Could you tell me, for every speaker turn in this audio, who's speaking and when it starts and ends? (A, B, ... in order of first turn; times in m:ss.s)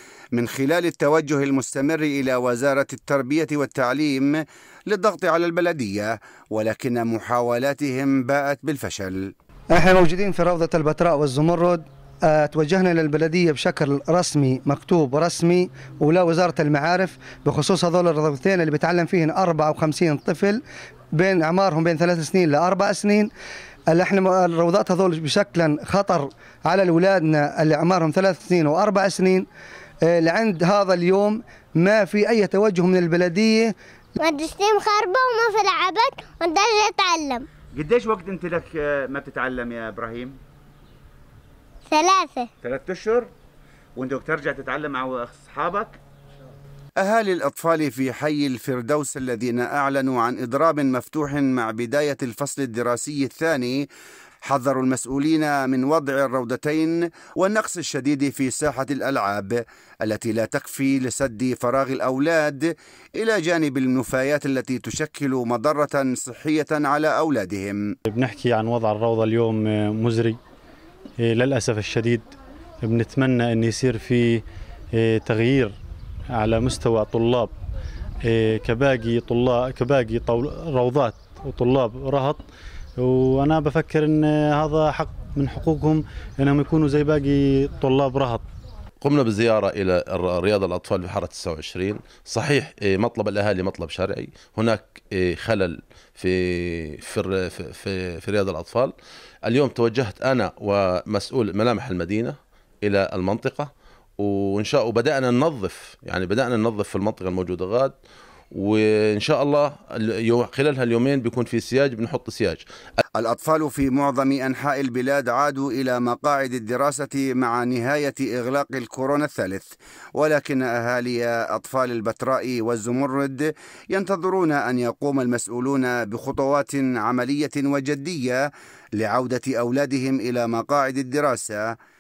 0:00.3-0:09.3 A
0:09.7-0:20.6 B
0:21.1-0:23.3 B
0:23.9-0:29.5 B
0:30.1-0:33.7 B
0:34.2-0:37.4 C
0:37.7-0:40.4 D
0:41.9-0:42.5 C
0:42.6-0:43.3 D
0:44.0-0:46.0 D
0:47.0-0:53.9 A
0:54.4-1:07.9 A
1:08.1-1:10.4 E
1:11.2-1:12.3 E
1:12.8-1:14.4 E
1:15.0-1:15.8 E
1:16.3-1:17.5 E
1:18.2-1:22.4 E
1:23.0-1:28.4 E
1:29.0-1:38.9 F
1:39.5-1:48.0 F
1:48.5-1:52.6 F
1:53.2-2:11.7 A